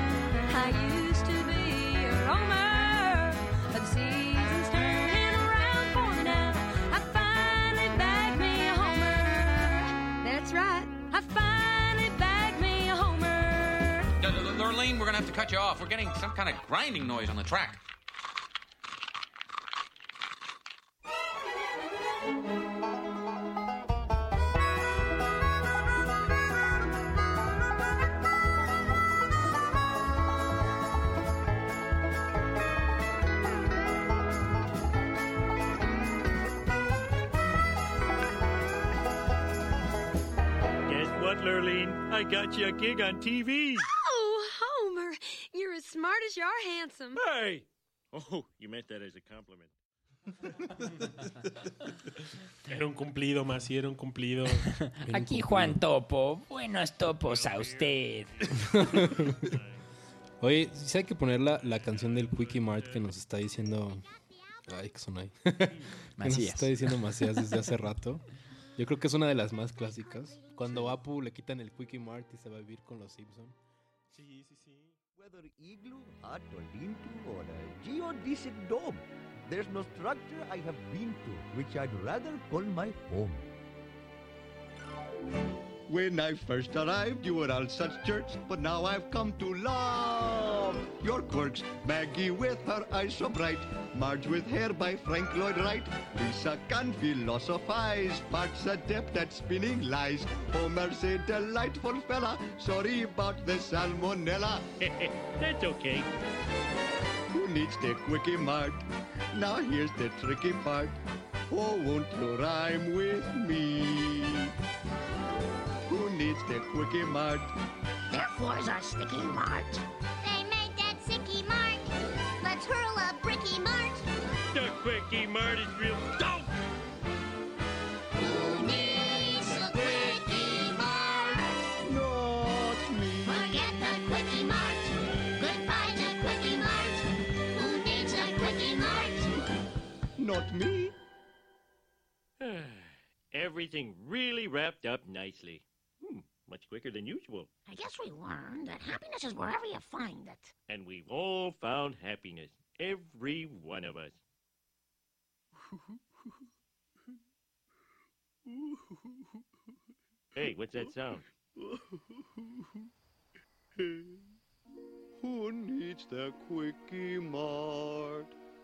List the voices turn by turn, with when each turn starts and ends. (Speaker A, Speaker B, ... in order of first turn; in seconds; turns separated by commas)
Speaker A: 0.5-14.1, Speaker B: 14.2-17.8, Speaker C: 42.6-43.7, Speaker A: 43.8-47.2, Speaker C: 47.2-47.6, Speaker C: 48.2-49.7, Speaker D: 52.6-54.7, Speaker E: 54.7-58.3, Speaker F: 55.0-55.8, Speaker C: 57.3-58.0, Speaker F: 58.5-59.5, Speaker F: 60.4-64.0, Speaker F: 64.7-68.2, Speaker E: 66.2-67.6, Speaker F: 68.8-73.5, Speaker D: 74.1-75.0, Speaker G: 75.2-83.5, Speaker G: 85.9-104.7, Speaker C: 105.0-106.0, Speaker G: 107.3-114.5, Speaker G: 115.9-117.5, Speaker H: 118.1-119.8, Speaker I: 120.2-121.9, Speaker I: 122.4-124.0, Speaker C: 124.5-126.4, Speaker H: 128.2-131.5, Speaker G: 131.8-133.5, Speaker H: 133.3-139.4, Speaker G: 140.2-140.9, Speaker C: 143.5-144.1, Speaker C: 144.8-147.4, Speaker H: 147.7-150.5, Speaker C: 150.7-154.1, Speaker C: 160.4-161.2, Speaker G: 161.6-161.8, Speaker G: 163.8-164.2, Speaker G: 165.2-168.3